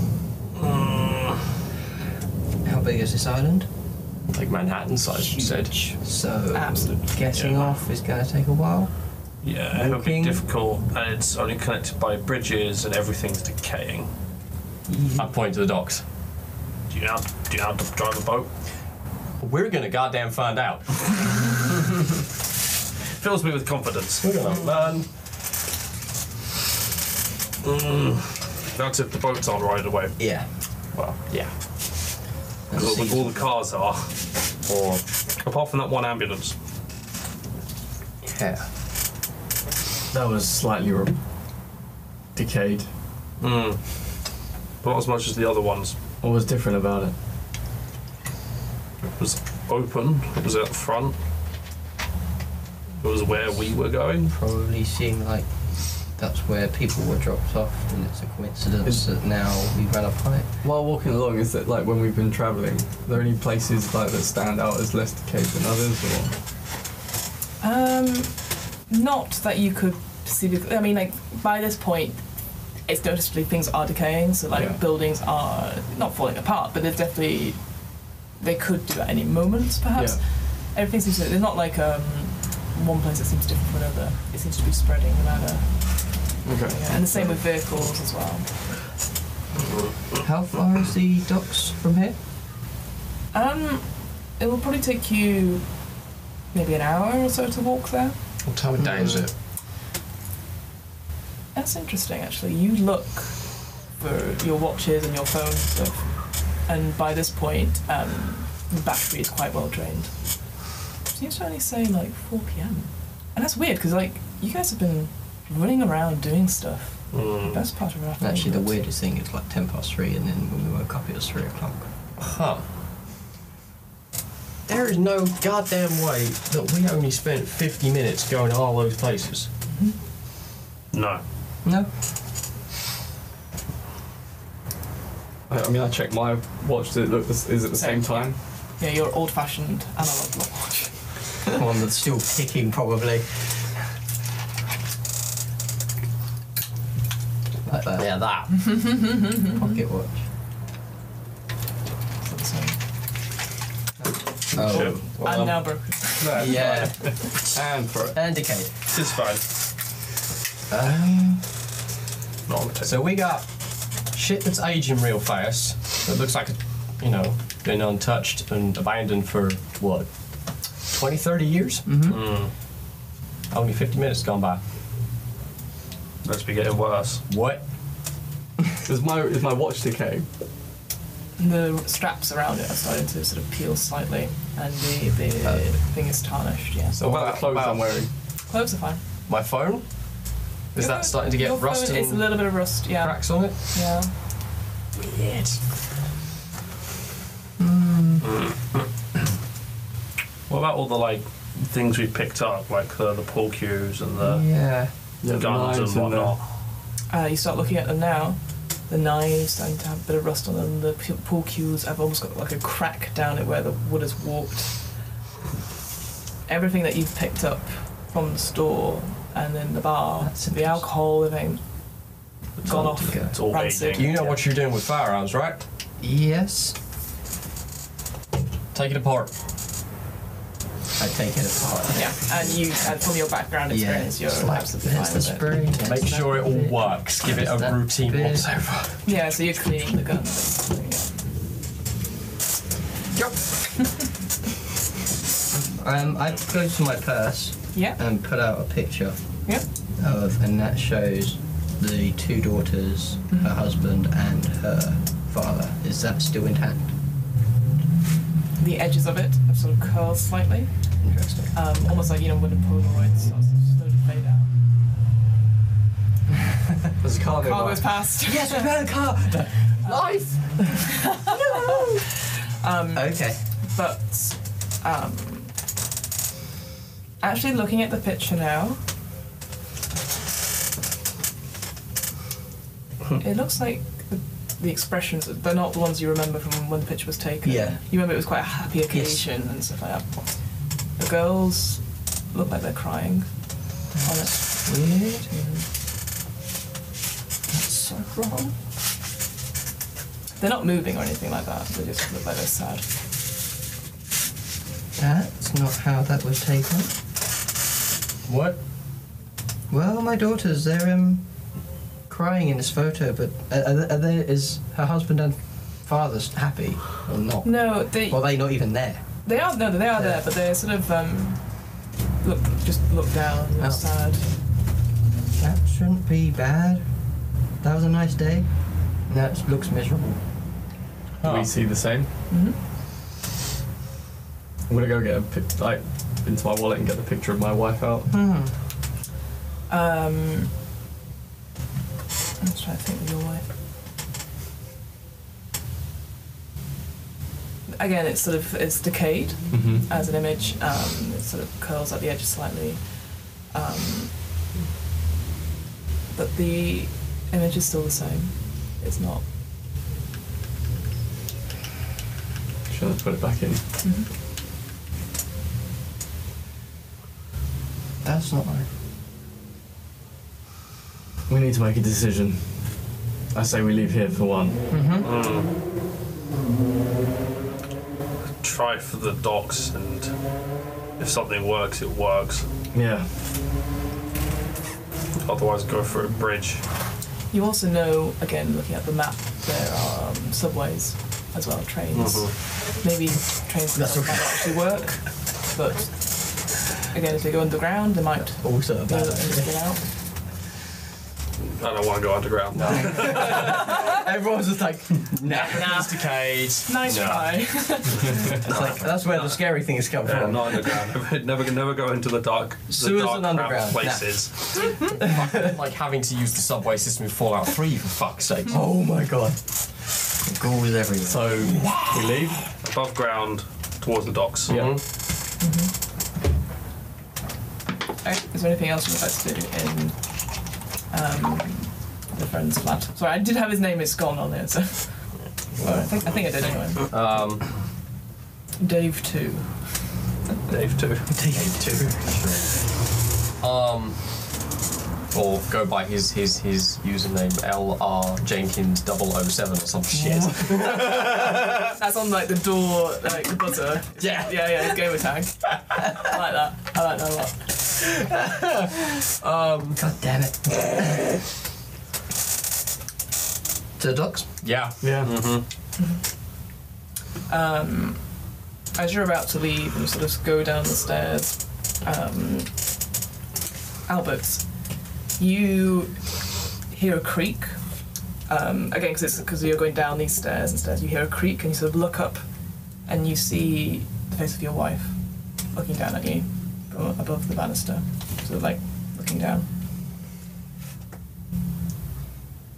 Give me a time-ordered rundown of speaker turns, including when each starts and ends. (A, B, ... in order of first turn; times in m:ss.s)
0:00.6-0:01.3 A
0:02.6-0:03.7 B
0:04.3-0:05.8 C
0:05.2-0:08.9 B
0:06.5-0:07.1 D
0:07.3-0:07.7 A
0:09.4-0:14.1 A
0:09.7-0:10.4 B
0:14.9-0:15.3 B
0:15.2-0:16.0 C
0:16.9-0:18.5 A
0:19.4-0:21.5 C
0:23.1-0:24.3 A
0:24.2-0:25.1 C
0:27.6-0:30.2 A
0:30.2-0:30.4 B
0:30.9-0:31.5 C
0:32.7-0:33.4 B
0:32.7-0:34.1 A
0:34.6-0:35.0 C
0:35.4-0:36.5 A
0:38.2-0:38.6 C
0:40.1-0:41.2 E
0:42.3-0:42.9 E
0:43.4-0:43.8 A
0:44.8-0:45.9 A
0:46.2-0:47.1 E
0:49.0-0:51.2 A
0:53.0-0:54.3 A
0:54.3-1:00.5 B
1:00.6-1:06.3 E
1:07.6-1:28.5 D
1:14.5-1:14.8 E
1:26.4-1:27.3 E
1:30.2-1:32.2 B
1:33.3-1:35.7 D
1:36.5-1:38.2 D
1:38.4-1:39.3 C
1:38.8-1:39.2 B
1:41.5-1:50.1 D
1:51.1-1:58.8 D
1:57.1-1:57.6 A
1:58.2-2:01.9 B
2:02.2-2:02.6 C
2:04.7-2:09.5 C
2:09.7-2:10.0 D
2:10.9-2:11.2 A
2:11.6-2:11.9 B
2:15.5-2:18.4 E
2:17.8-2:21.1 D
2:21.5-2:23.7 B
2:27.6-2:28.1 B
2:28.0-2:28.7 C
2:28.6-2:29.7 D
2:29.5-2:30.2 B
2:32.2-2:32.8 D
2:34.0-2:35.1 B
2:34.7-2:35.0 A
2:35.0-2:36.7 D
2:36.2-2:36.8 A
2:36.3-2:37.4 B
2:36.3-2:38.2 E
2:38.1-2:38.7 B
2:38.9-2:39.4 A
2:40.7-2:41.4 B
2:42.5-2:43.0 A
2:42.8-2:51.9 C
2:51.8-2:52.2 B
2:52.1-2:52.5 A
2:53.5-2:54.6 C
2:56.2-2:57.2 A
2:57.3-2:57.6 C
2:58.8-3:00.3 E
3:01.4-3:07.0 D
3:07.0-3:08.0 C
3:07.0-3:08.1 E
3:08.5-3:09.0 D
3:09.3-3:13.6 C
3:10.8-3:14.1 D
3:15.0-3:15.6 C
3:17.6-3:18.3 B
3:18.2-3:18.5 A
3:20.5-3:24.4 A
3:24.2-3:24.9 B
3:25.2-3:26.4 E
3:25.3-3:26.4 A
3:27.1-3:34.9 D
3:36.5-3:41.6 D
3:40.2-3:40.9 B
3:42.6-3:44.4 A
3:42.6-3:44.3 D
3:42.7-3:43.3 B
3:43.9-3:45.6 C
3:46.0-3:46.8 B
3:48.7-3:49.3 C
3:51.0-3:52.6 B
3:51.9-3:55.5 D
3:53.7-3:58.5 B
3:55.8-3:59.0 C
3:59.0-4:01.2 D
4:05.5-4:09.2 B
4:10.0-4:16.9 B
4:13.3-4:13.5 D
4:18.6-4:20.7 D
4:21.0-4:21.5 B
4:21.5-4:24.5 D
4:27.0-4:27.9 E
4:27.4-4:28.9 D
4:28.2-4:32.0 B
4:30.0-4:30.3 C
4:30.8-4:32.0 D
4:32.6-4:35.5 D
4:32.9-4:33.4 B
4:37.2-4:38.8 D
4:43.2-4:53.3 D
4:47.4-4:47.8 B
4:48.9-4:49.2 B
4:53.9-4:55.3 B
4:54.0-4:54.6 D
4:55.2-4:55.6 D
4:57.5-4:58.5 B
5:00.4-5:02.9 D
5:05.0-5:06.9 B
5:08.2-5:08.6 C
5:09.7-5:11.2 B
5:12.1-5:19.0 B
5:17.4-5:18.3 D
5:19.2-5:24.2 D
5:20.0-5:20.2 B
5:25.3-5:26.9 B
5:27.6-5:30.2 B
5:31.2-5:31.5 C
5:31.2-5:32.1 E
5:32.3-5:32.6 D
5:34.7-5:38.1 E
5:38.1-5:38.5 B
5:39.7-5:40.5 D
5:42.4-5:43.4 D
5:47.7-5:54.1 D
5:49.5-5:49.8 E
5:56.1-5:59.2 D
6:02.7-6:03.6 E
6:03.8-6:04.1 D
6:08.0-6:08.7 B
6:11.3-6:14.6 E
6:14.7-6:15.1 B
6:15.0-6:15.5 A
6:18.4-6:20.1 A
6:21.0-6:22.5 A
6:22.7-6:23.1 E
6:25.2-6:26.6 A
6:27.3-6:39.8 D
6:32.0-6:32.3 A
6:33.7-6:34.6 B
6:38.4-6:39.5 B
6:41.6-6:43.6 A
6:42.5-6:43.6 C
6:42.7-6:45.8 B
6:45.3-6:47.7 C
6:45.5-6:48.3 D
6:48.4-6:50.8 B
6:48.4-6:49.4 A
6:48.5-6:48.8 C
6:50.0-6:54.3 A
6:52.7-6:55.5 B
6:54.9-6:58.6 C
6:58.5-7:01.7 B
7:01.0-7:02.5 E
7:02.6-7:04.6 A
7:04.5-7:04.8 C
7:04.5-7:04.8 E
7:05.4-7:05.7 D
7:08.0-7:16.8 D
7:16.9-7:17.5 C
7:18.6-7:19.9 D
7:20.5-7:21.1 A
7:21.1-7:22.5 B
7:23.4-7:24.2 C
7:25.1-7:31.2 C
7:29.9-7:31.1 B
7:31.7-7:37.6 D
7:38.0-7:38.7 B
7:39.2-7:39.8 C
7:39.8-7:41.2 B
7:43.8-7:44.3 B
7:44.4-7:45.2 C
7:44.8-7:45.1 E
7:45.0-7:45.4 A
7:47.3-7:52.6 D
7:53.8-8:02.2 D
8:02.8-8:09.4 D